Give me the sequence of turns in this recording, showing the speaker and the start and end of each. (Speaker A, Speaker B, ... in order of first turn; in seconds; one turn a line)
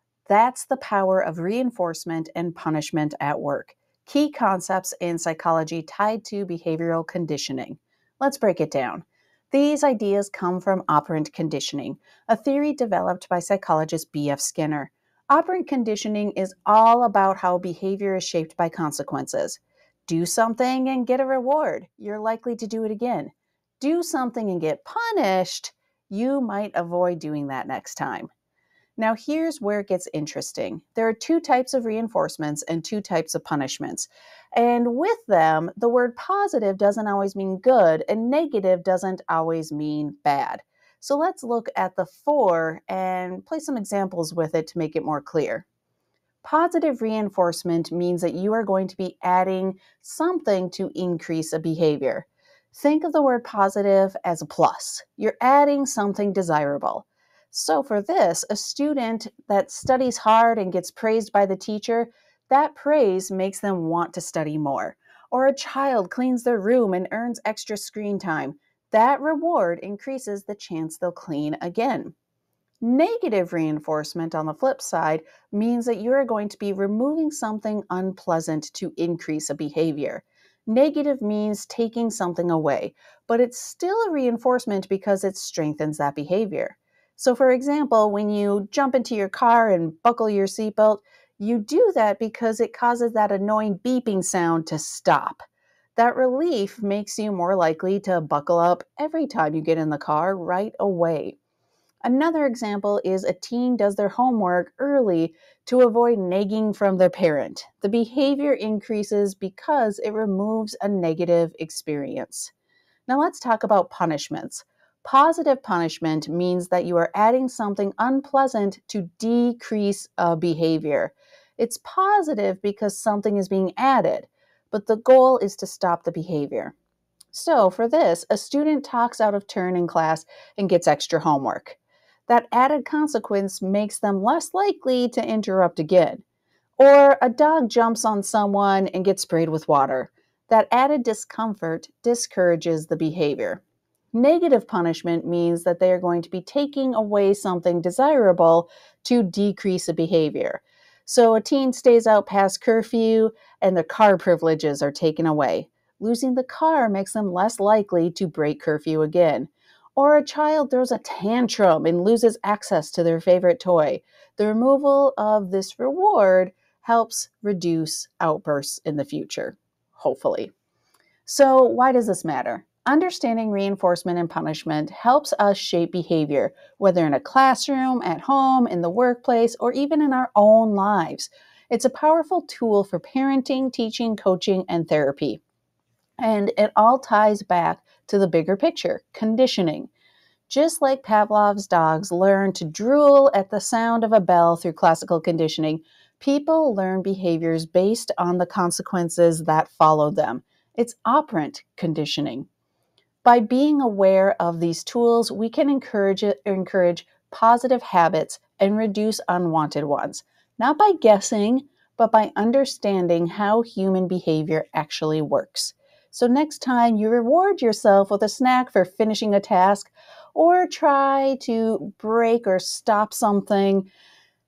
Speaker A: 0.3-28.3
Speaker A: 29.0-45.6
Speaker A: 46.4-72.1
Speaker A: 72.8-95.4
Speaker A: 96.0-101.4
Speaker A: 102.0-112.5
Speaker A: 113.1-126.8
Speaker A: 127.3-136.2
Speaker A: 136.8-143.6
Speaker A: 144.1-170.5
Speaker A: 171.2-185.4
Speaker A: 186.2-189.9
Speaker A: 190.5-202.5
Speaker A: 203.2-223.9